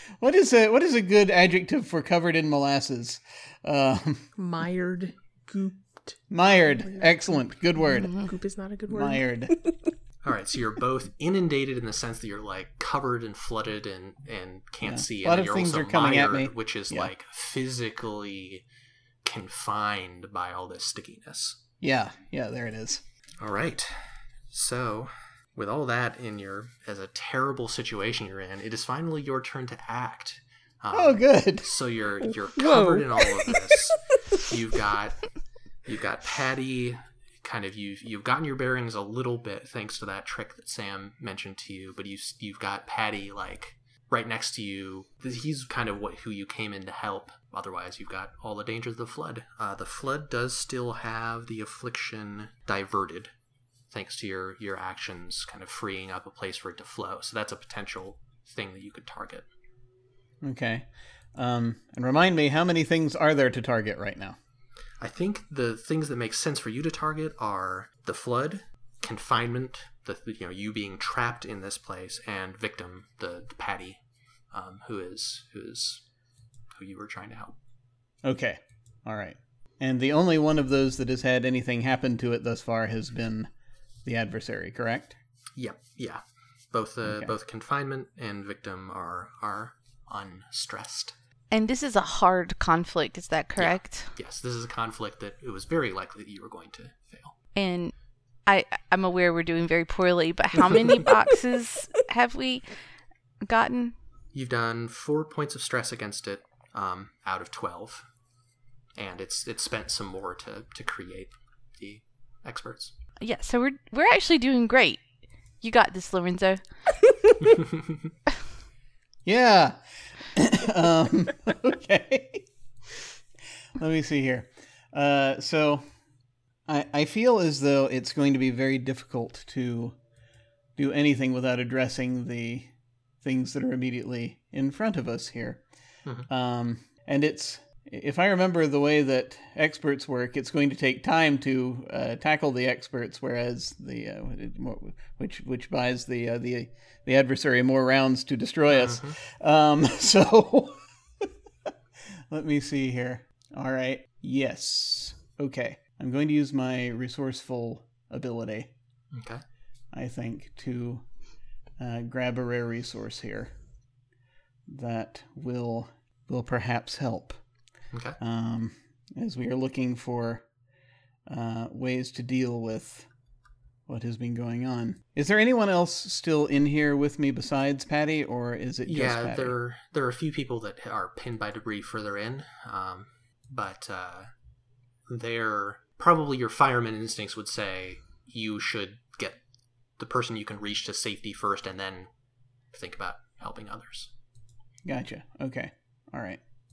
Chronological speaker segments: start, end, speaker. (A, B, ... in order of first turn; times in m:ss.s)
0:00.2-0:04.3 A
0:04.4-0:06.2 B
0:06.3-0:08.3 A
0:06.8-0:09.8 B
0:08.9-0:09.6 A
0:10.2-0:18.6 C
0:14.8-0:17.1 A
0:19.2-0:21.6 C
0:21.8-0:23.0 A
0:23.4-0:35.2 C
0:30.9-0:31.7 A
0:32.6-0:33.9 B
0:35.8-0:53.3 C
0:53.9-0:59.5 C
1:00.4-1:04.4 A
1:05.0-1:14.0 C
1:14.5-1:16.0 C
1:16.8-1:17.6 C
1:18.2-1:23.5 A
1:24.0-1:25.1 A
1:25.6-1:31.2 C
1:27.1-1:27.3 A
1:31.5-1:34.1 D
1:33.6-1:37.4 C
1:37.6-1:37.9 D
1:38.5-1:42.8 D
1:43.4-1:43.9 D
1:44.3-1:48.1 C
1:49.0-1:52.9 C
1:53.2-1:55.0 D
1:55.6-1:56.6 D
1:59.2-1:59.8 A
2:00.3-2:02.5 A
2:03.8-2:05.9 A
2:06.7-2:10.0 A
2:10.8-2:15.6 A
2:16.3-2:31.3 A
2:28.7-2:29.2 C
2:32.3-2:38.7 A
2:39.1-2:39.4 C
2:39.9-2:41.0 A
2:41.8-2:43.5 A
2:44.7-2:47.4 A
2:47.9-2:48.2 C
2:48.2-2:50.4 A
2:51.3-2:53.1 A
2:53.9-2:59.6 A
2:58.9-3:04.3 C
3:05.1-3:09.4 C
3:10.0-3:12.1 C
3:12.7-3:14.1 C
3:14.8-3:16.4 A